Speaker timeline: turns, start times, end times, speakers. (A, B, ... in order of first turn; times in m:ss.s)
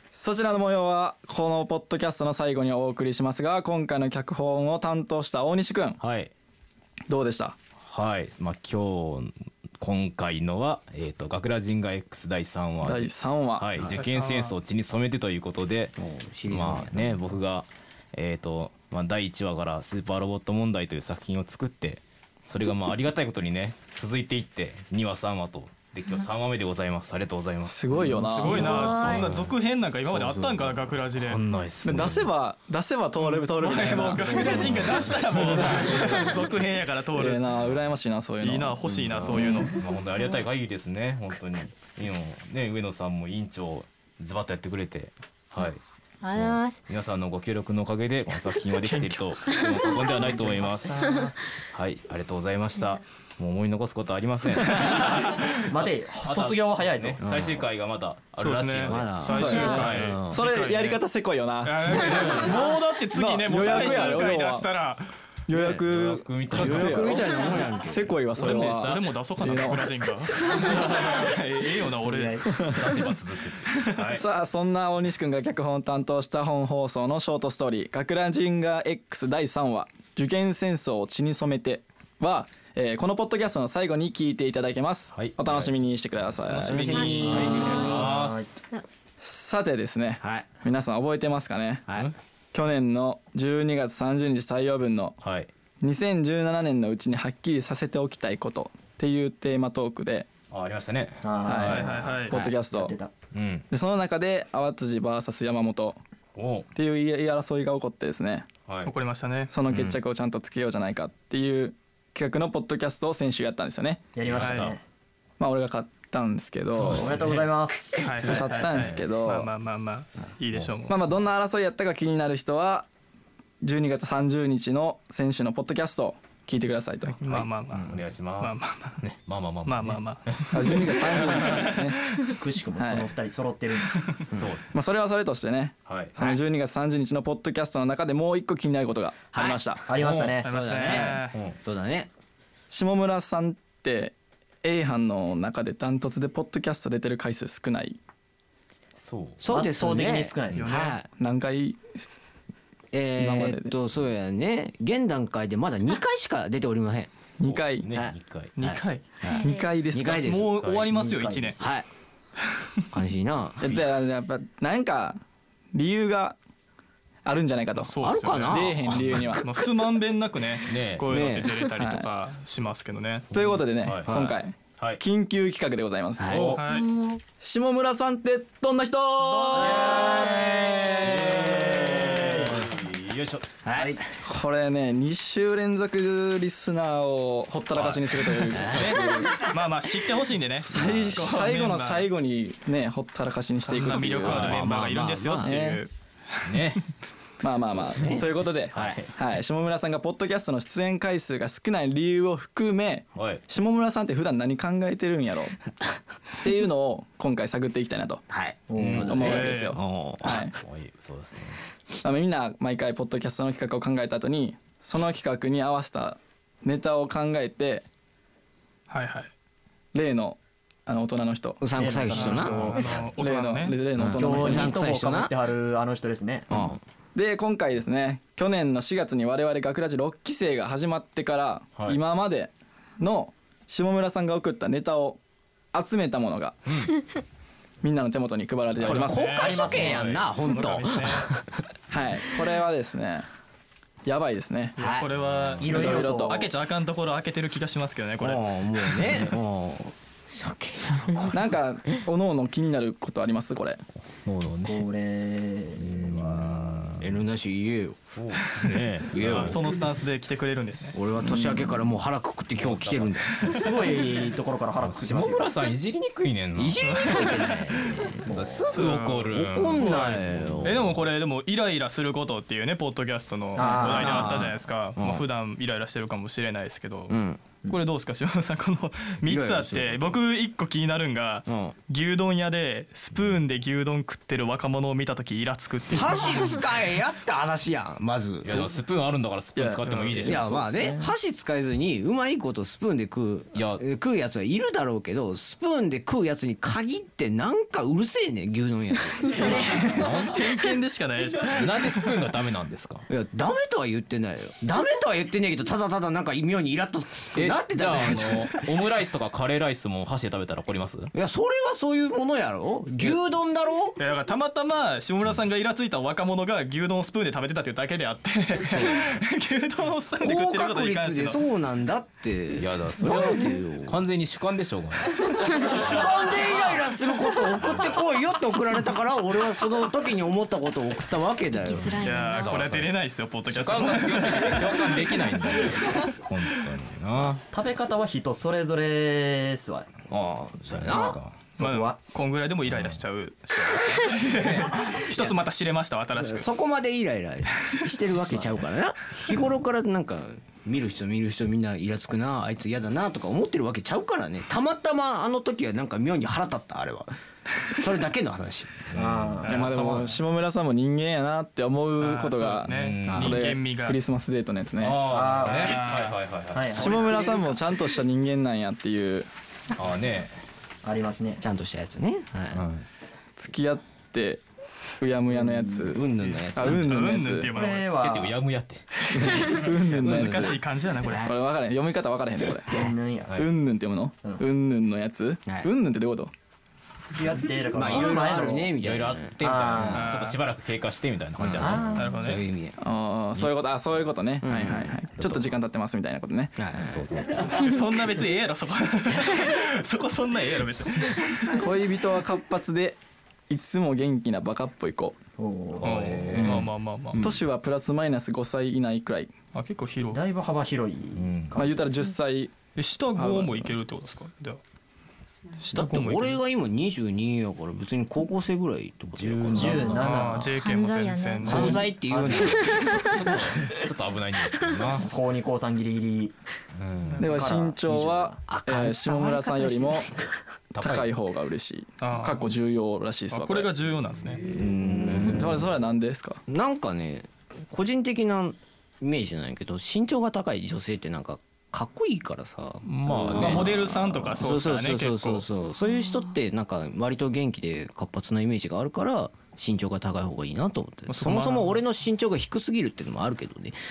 0:00.1-0:06.0 A
0:06.0-0:06.3 B
0:07.1-0:07.6 A
0:07.8-0:16.0 B
0:12.8-0:13.7 A
0:13.9-0:14.5 C
0:16.0-0:17.2 D
0:16.5-0:29.5 B
0:27.6-0:28.7 A
0:28.3-0:31.4 C
0:28.5-0:29.3 E
0:30.1-0:32.3 B
0:31.8-0:34.7 A
0:33.2-0:37.4 C
0:33.9-0:35.6 B
0:34.3-0:35.1 D
0:35.3-0:36.3 A
0:37.1-0:38.8 A
0:38.4-0:39.7 C
0:38.9-0:45.8 B
0:46.2-0:46.8 E
0:46.3-0:51.0 B
0:48.7-0:49.6 C
0:49.4-0:50.4 E
0:50.2-0:51.3 F
0:51.0-0:51.3 E
0:51.7-0:55.7 B
0:55.6-0:57.2 F
0:56.2-1:00.2 B
0:57.2-0:57.6 D
0:58.4-1:01.0 C
0:58.8-1:00.4 D
0:59.3-1:02.5 A
1:01.6-1:05.1 C
1:01.9-1:02.5 B
1:03.1-1:04.7 A
1:03.6-1:04.2 B
1:05.5-1:09.9 A
1:05.5-1:05.9 D
1:05.8-1:07.7 B
1:06.5-1:08.1 D
1:08.3-1:09.7 B
1:08.4-1:12.7 C
1:10.7-1:11.0 B
1:12.0-1:12.5 F
1:12.5-1:12.8 A
1:12.6-1:14.2 B
1:14.1-1:27.1 A
1:25.1-1:28.6 B
1:26.5-1:28.1 D
1:27.0-1:28.0 E
1:27.2-1:28.5 F
1:29.2-1:31.9 A
1:30.2-1:30.5 D
1:32.5-1:35.2 A
1:35.2-1:35.5 B
1:35.8-1:40.3 A
1:40.5-1:42.3 B
1:41.2-1:43.1 F
1:41.4-1:42.9 A
1:41.7-1:42.3 C
1:43.3-1:43.6 B
1:43.7-1:46.0 A
1:46.4-1:46.7 B
1:46.7-1:48.4 A
1:48.6-1:48.9 B
1:48.8-1:49.5 C
1:49.5-1:54.1 A
1:54.1-1:54.8 F
1:54.2-1:54.8 B
1:54.4-1:54.7 C
1:55.4-1:57.2 A
1:56.8-1:57.4 B
1:56.9-1:58.4 F
1:58.0-2:01.0 C
1:58.2-1:59.5 A
1:58.7-1:59.1 B
2:00.9-2:02.9 A
2:03.6-2:07.5 A
2:07.1-2:09.0 C
2:07.8-2:11.6 B
2:09.6-2:12.3 C
2:10.5-2:12.0 A
2:12.3-2:14.0 F
2:12.8-2:13.1 A
2:14.3-2:14.7 B
2:14.7-2:19.9 A
2:15.8-2:16.2 B
2:19.3-2:22.1 D
2:19.8-2:20.5 F
2:20.0-2:20.3 B
2:20.4-2:21.4 C
2:20.8-2:21.6 B
2:22.7-2:28.0 A
2:29.0-2:29.4 B
2:29.4-2:31.1 D
2:29.5-2:30.7 F
2:30.5-2:31.0 C
2:31.1-2:31.8 A
2:32.9-2:37.3 D
2:33.2-2:33.7 A
2:37.4-2:37.9 A
2:37.4-2:38.5 B
2:37.9-2:40.6 D
2:38.6-2:39.0 C
2:39.3-2:39.7 E
2:39.4-2:40.4 A
2:40.1-2:41.6 C
2:40.4-2:40.9 B
2:40.9-2:41.7 F
2:41.6-2:41.9 D
2:42.9-2:43.8 D
2:43.6-2:45.2 A
2:45.7-2:46.4 A
2:47.2-2:49.4 A
2:47.9-2:48.7 C
2:48.0-2:49.4 D
2:49.4-2:53.2 C
2:50.6-2:51.2 B
2:51.1-2:51.5 D
2:51.8-2:52.0 A
2:53.3-2:56.6 A
2:53.3-2:55.0 B
2:56.2-2:56.6 D
2:56.3-2:56.5 B
2:56.5-2:56.9 C
2:56.6-2:57.2 E
2:57.4-2:59.9 A
2:59.5-3:04.0 B
2:59.5-3:02.3 D
3:03.6-3:04.0 D
3:04.2-3:09.5 A
3:07.7-3:09.3 B
3:08.5-3:09.3 D
3:09.5-3:12.1 C
3:10.7-3:14.6 A
3:10.7-3:11.2 B
3:13.8-3:14.9 B
3:13.8-3:15.9 C
3:14.2-3:15.5 D
3:15.4-3:15.8 A
3:16.4-3:16.8 B
3:17.4-3:25.6 A
3:17.9-3:19.0 D
3:18.7-3:19.1 B
3:23.1-3:23.4 B
3:26.4-3:28.2 A
3:28.3-3:28.6 D
3:28.7-3:29.4 F
3:28.8-3:29.3 B
3:28.9-3:30.6 A
3:29.2-3:29.8 C
3:29.7-3:30.5 D
3:30.6-3:31.6 B
3:32.0-3:37.8 A
3:38.9-3:39.3 C
3:39.9-3:41.6 A
3:41.6-3:42.8 D
3:41.7-3:42.8 F
3:42.2-3:43.8 C
3:42.2-3:44.7 A
3:42.3-3:43.1 B
3:43.9-3:45.3 D
3:44.2-3:46.5 F
3:46.5-3:46.8 D
3:47.1-3:55.2 A
3:55.7-3:56.7 A
3:56.7-3:56.9 B
3:57.8-3:59.5 A
3:58.8-4:01.6 D
3:58.9-4:01.3 C
3:58.9-4:00.3 B
4:01.9-4:03.2 A
4:04.0-4:04.8 A
4:04.8-4:08.5 C
4:04.8-4:05.1 D
4:05.1-4:05.7 B
4:05.6-4:06.5 F
4:05.7-4:06.5 A
4:08.2-4:11.4 D
4:11.3-4:13.8 A
4:14.2-4:14.8 B
4:14.6-4:16.9 F
4:15.8-4:17.1 B
4:17.0-4:18.0 D
4:18.1-4:19.6 B
4:19.1-4:19.6 D
4:19.2-4:21.0 C
4:20.9-4:23.6 D
4:21.2-4:21.6 A
4:22.6-4:23.6 B
4:23.4-4:25.4 F
4:24.8-4:27.5 B
4:26.6-4:30.9 D
4:26.8-4:28.0 C
4:28.3-4:28.6 F
4:28.3-4:30.9 B
4:28.7-4:46.6 C
4:33.6-4:34.4 F
4:33.6-4:35.2 D
4:37.1-4:37.4 D
4:39.2-4:40.2 D
4:41.5-4:41.7 D
4:45.9-4:48.7 D
4:48.4-4:50.8 B
4:49.6-4:51.1 A
4:49.9-4:50.3 C
4:50.2-4:59.7 D
4:53.5-4:53.8 B
4:59.2-4:59.8 E
4:59.3-5:02.3 C
4:59.4-5:00.4 B
5:01.4-5:03.0 B
5:03.1-5:08.6 D
5:07.3-5:11.1 B
5:11.1-5:14.0 D
5:14.0-5:21.4 C
5:20.2-5:24.0 D
5:22.6-5:26.8 B
5:25.5-5:32.0 D
5:27.5-5:27.9 B
5:31.6-5:32.6 E
5:32.0-5:36.1 C
5:32.0-5:32.9 B
5:33.5-5:37.4 B
5:37.5-5:39.9 F
5:40.1-5:41.2 D
5:40.7-5:41.4 B
5:40.9-5:42.0 F
5:41.6-5:46.5 C
5:42.7-5:43.0 B
5:44.2-5:44.7 B
5:46.1-5:57.1 D
5:57.7-5:58.9 D
5:58.9-6:00.0 B
5:58.9-5:59.6 F
5:59.4-6:00.1 C
5:59.5-6:05.0 A
6:02.0-6:04.0 C
6:02.7-6:03.5 B
6:04.8-6:07.2 B
6:05.1-6:05.9 F
6:05.5-6:06.1 C
6:06.5-6:07.1 F
6:06.7-6:09.3 A
6:09.8-6:10.4 B
6:10.8-6:11.4 F
6:11.4-6:12.7 D
6:12.5-6:12.8 B
6:13.4-6:14.4 A
6:15.0-6:17.5 A
6:15.4-6:15.9 F
6:15.8-6:17.0 D
6:16.6-6:17.9 C
6:17.5-6:18.3 F
6:17.8-6:19.6 B
6:19.1-6:20.6 A
6:19.4-6:21.3 C
6:19.9-6:21.3 D
6:21.1-6:22.8 A
6:22.7-6:23.4 F
6:23.4-6:26.3 A
6:27.0-6:28.7 F
6:27.7-6:30.1 D
6:27.8-6:28.2 B
6:28.8-6:32.3 B
6:29.4-6:30.1 F
6:29.9-6:30.4 C
6:31.4-6:32.7 D
6:31.9-6:32.4 C
6:32.8-6:36.6 A
6:34.4-6:34.9 D
6:35.2-6:35.5 B
6:36.6-6:37.1 D
6:36.7-6:37.6 B
6:37.5-6:41.6 C
6:41.4-6:43.0 A
6:43.5-6:45.2 A
6:45.4-6:46.1 F
6:45.8-6:47.4 B
6:45.8-6:47.2 C
6:46.4-6:46.6 D
6:47.2-6:49.3 A
6:49.5-6:50.2 C
6:50.1-6:51.9 F
6:51.1-6:51.6 B
6:51.5-6:52.5 A
6:52.7-6:54.6 C
6:53.1-6:53.7 A
6:55.6-6:56.4 C
6:55.7-7:00.0 D
6:59.1-7:00.2 B
6:59.5-7:00.5 F
6:59.7-7:01.9 C
7:00.6-7:03.3 E
7:01.4-7:03.0 D
7:02.0-7:02.7 F
7:02.9-7:05.1 B
7:05.0-7:06.3 F
7:06.7-7:07.5 B
7:07.0-7:07.4 C
7:07.2-7:10.1 A
7:07.2-7:08.4 F
7:08.5-7:10.3 D
7:10.7-7:11.1 B
7:10.8-7:13.7 A
7:12.0-7:12.5 C
7:13.3-7:14.4 C
7:14.0-7:15.7 B
7:14.5-7:15.7 D
7:15.1-7:16.4 A
7:16.5-7:33.8 D
7:22.8-7:25.5 C
7:23.0-7:24.3 B
7:31.1-7:31.8 C